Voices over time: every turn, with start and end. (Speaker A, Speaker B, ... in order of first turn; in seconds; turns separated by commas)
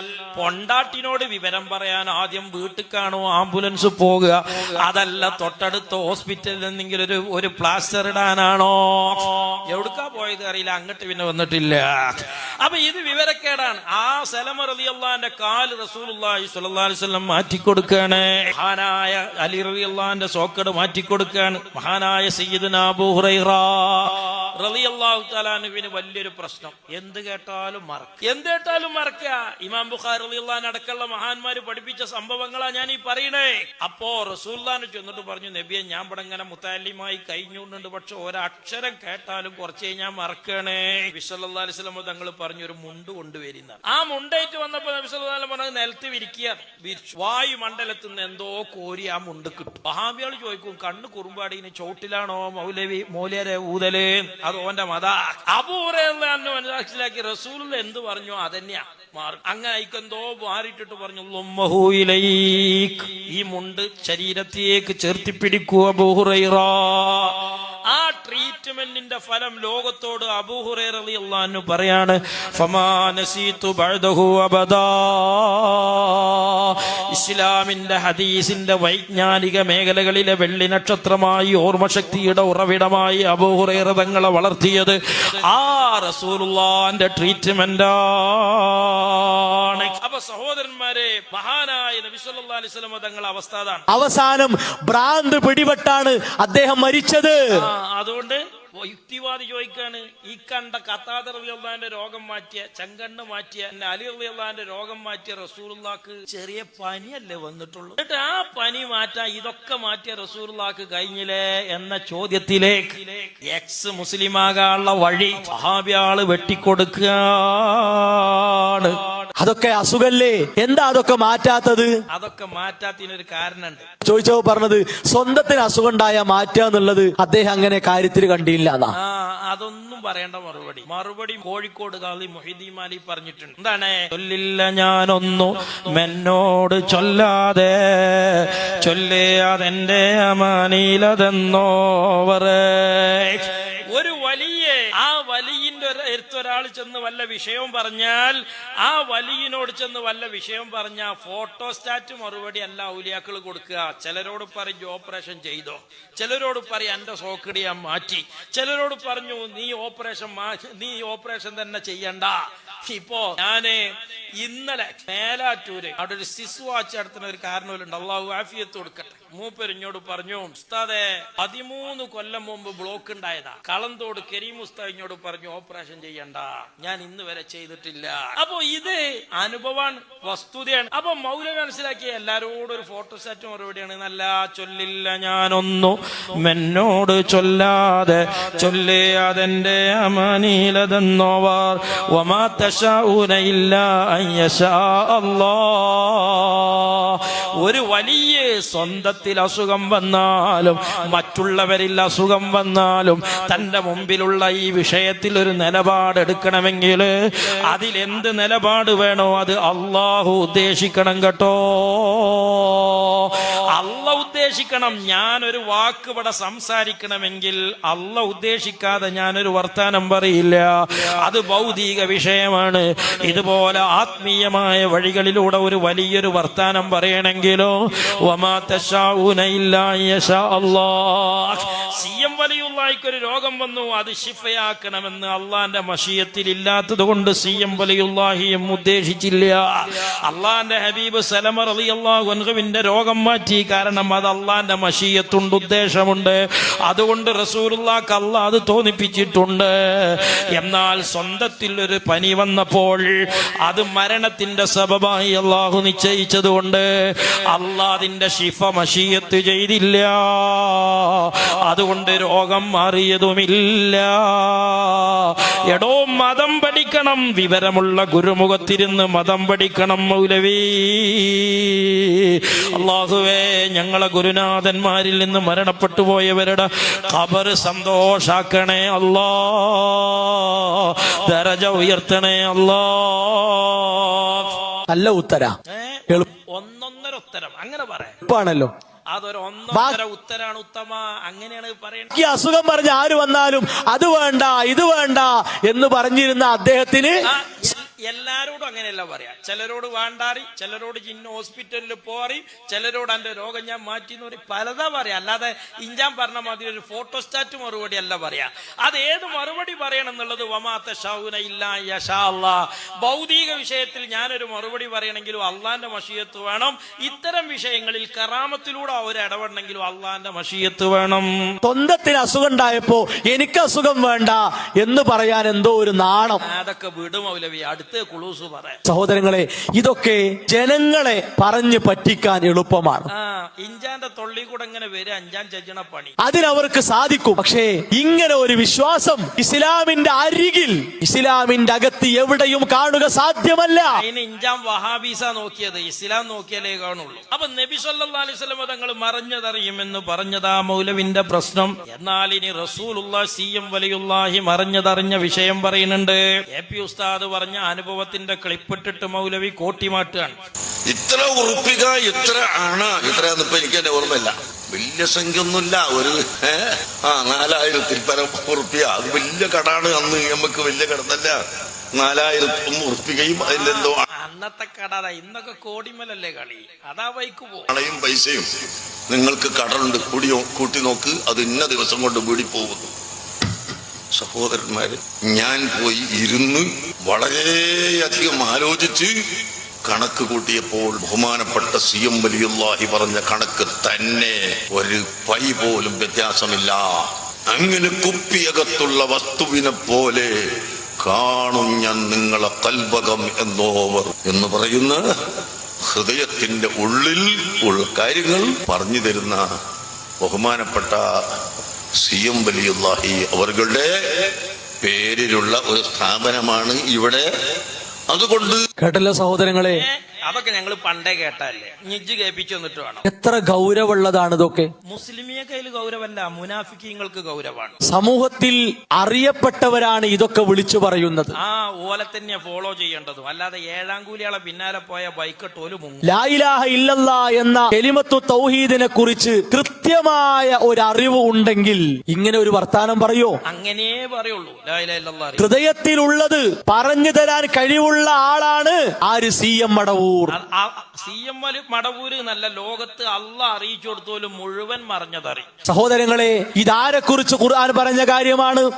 Speaker A: 0.3-93.8, Speaker B: 93.9-97.4, Speaker A: 97.5-119.3, Speaker B: 119.4-121.9, Speaker A: 122.1-123.8, Speaker B: 124.0-128.9, Speaker A: 129.0-207.1, Speaker A: 207.6-253.1, Speaker A: 253.6-284.8, Speaker B: 284.9-285.6, Speaker A: 285.7-288.1, Speaker B: 288.2-288.7, Speaker A: 289.1-292.1, Speaker B: 289.7-290.0, Speaker B: 292.1-297.1, Speaker A: 297.2-321.3, Speaker B: 321.6-326.4, Speaker A: 326.4-328.8, Speaker B: 328.9-333.1, Speaker A: 333.1-336.1, Speaker B: 336.2-344.0, Speaker A: 343.9-360.4, Speaker C: 360.9-371.3, Speaker C: 371.9-374.1, Speaker A: 373.4-377.7, Speaker C: 377.7-378.5, Speaker C: 379.1-382.9, Speaker C: 384.1-389.1, Speaker C: 389.9-400.3, Speaker C: 401.0-405.0, Speaker C: 405.9-409.4, Speaker C: 410.2-411.0, Speaker C: 412.0-417.2, Speaker C: 418.1-418.6, Speaker B: 418.8-419.8, Speaker A: 419.7-423.0, Speaker B: 423.0-424.7, Speaker A: 424.9-427.7, Speaker B: 427.9-431.3, Speaker A: 431.4-436.1, Speaker B: 436.1-443.4, Speaker A: 443.5-445.5, Speaker B: 445.4-450.3, Speaker A: 450.3-455.5, Speaker B: 455.6-458.7